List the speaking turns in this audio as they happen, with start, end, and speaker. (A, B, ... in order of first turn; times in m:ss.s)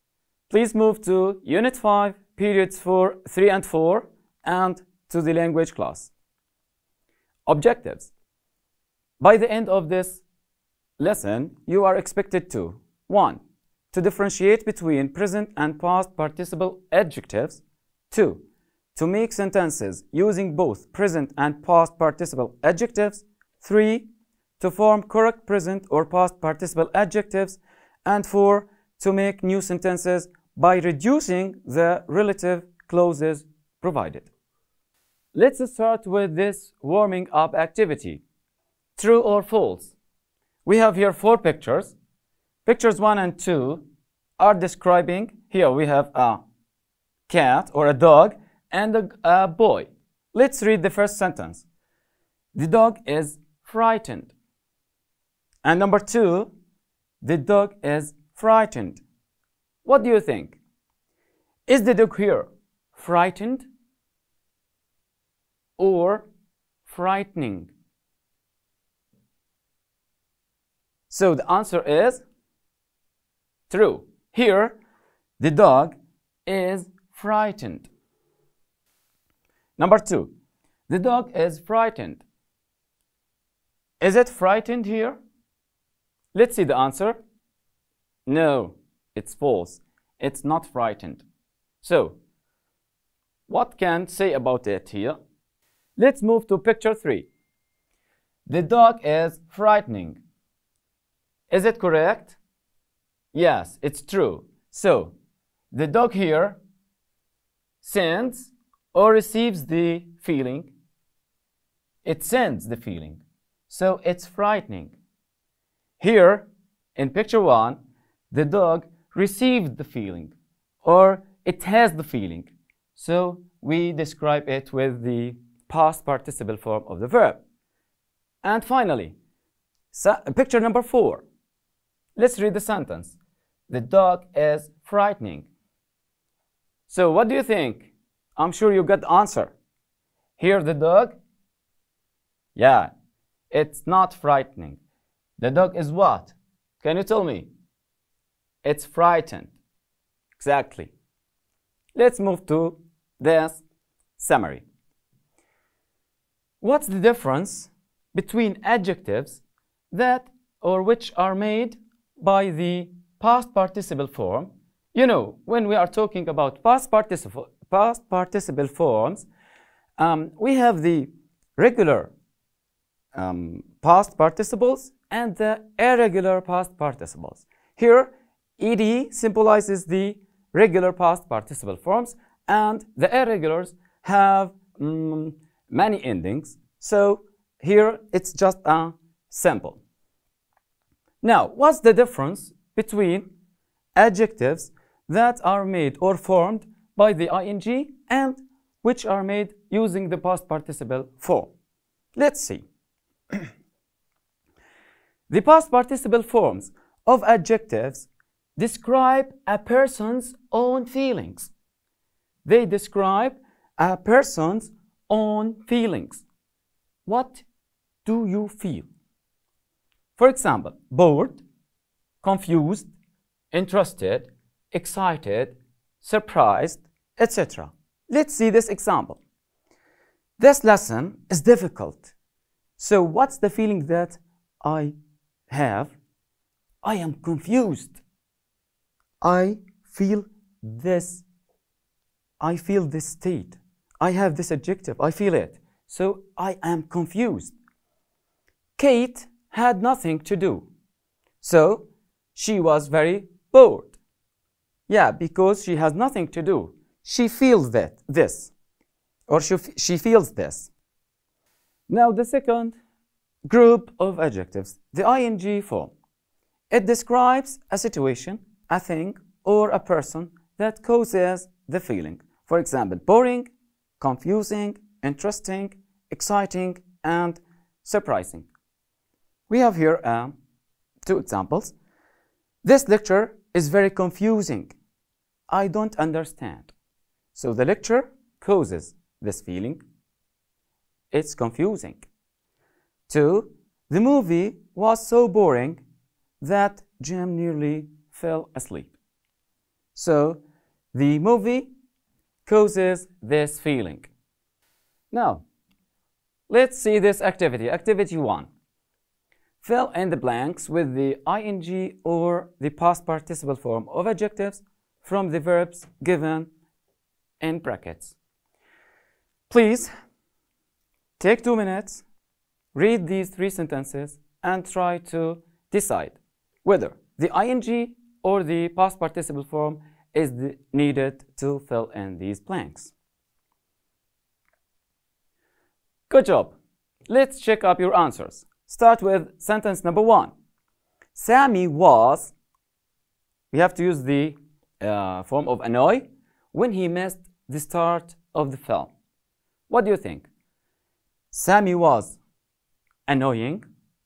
0:00.5-0:06.1 A
0:07.5-0:08.1 A
0:09.2-0:10.2 A
0:11.0-0:13.4 A
0:13.9-0:18.4 A
0:18.9-0:24.1 A
0:24.6-0:34.3 A
0:35.3-0:38.2 A
0:39.0-0:39.9 A
0:40.6-0:42.0 A
0:42.6-0:43.8 A
0:44.4-0:46.4 A
0:47.3-0:51.6 A
0:52.5-0:54.3 A
0:55.6-0:56.5 A
0:57.2-0:59.0 A
0:59.8-1:00.6 A
1:01.7-1:03.7 A
1:05.8-1:06.3 A
1:06.8-1:07.7 A
1:11.1-1:12.2 A
1:13.7-1:14.8 A
1:15.4-1:17.9 A
1:19.8-1:20.3 A
1:20.9-1:22.2 A
1:24.0-1:25.2 A
1:26.3-1:27.2 A
1:28.3-1:31.2 A
1:31.8-1:32.2 A
1:33.5-1:35.2 A
1:36.0-1:37.3 A
1:38.5-1:40.2 A
1:41.5-1:42.4 A
1:43.3-1:45.1 A
1:45.7-1:46.6 A
1:47.8-1:50.7 A
1:52.0-1:54.9 A
1:56.0-1:57.8 A
1:58.3-2:07.4 A
2:08.4-2:09.2 A
2:09.9-2:11.2 A
2:12.2-2:13.1 A
2:13.7-2:15.5 A
2:16.9-2:19.5 A
2:20.4-2:21.2 A
2:22.6-2:22.9 A
2:23.5-2:24.8 A
2:25.4-2:27.5 A
2:28.6-2:29.5 A
2:30.4-2:30.9 A
2:31.9-2:33.6 A
2:34.2-2:34.6 A
2:36.6-2:49.3 A
2:50.0-2:52.1 A
2:53.1-3:09.8 A
3:11.2-3:13.3 A
3:14.0-3:21.5 A
3:22.2-3:22.6 A
3:25.3-3:31.5 A
3:32.4-3:36.2 A
3:37.0-3:37.4 A
3:38.0-3:38.9 A
3:40.2-3:41.4 A
3:42.2-3:42.9 A
3:43.5-3:49.2 A
3:50.4-3:52.1 A
3:52.8-3:54.9 A
3:55.5-3:55.9 A
3:56.8-3:58.0 A
3:59.2-4:01.2 A
4:02.4-4:07.5 A
4:08.8-4:10.7 A
4:11.4-4:13.9 A
4:14.9-4:18.5 A
4:19.3-4:20.7 A
4:21.9-4:22.8 A
4:23.4-4:25.9 A
4:26.7-4:38.5 A
4:39.5-4:40.3 A
4:41.0-4:41.7 A
4:42.6-4:44.7 A
4:45.5-4:46.7 A
4:47.3-4:49.8 A
4:51.1-4:52.1 A
4:53.1-4:55.8 A
4:56.4-4:58.9 A
4:59.9-5:00.4 A
5:00.9-5:01.7 A
5:02.4-5:04.1 A
5:05.1-5:05.4 A
5:06.5-5:08.5 A
5:09.6-5:16.5 A
5:17.4-5:18.2 A
5:19.5-5:19.9 A
5:21.2-5:22.0 A
5:22.7-5:32.9 A
5:36.1-5:36.5 A
5:37.1-5:40.3 A
5:41.1-5:42.3 A
5:43.5-5:48.9 A
5:49.7-5:50.3 A
5:51.3-5:52.2 A
5:53.1-5:53.6 A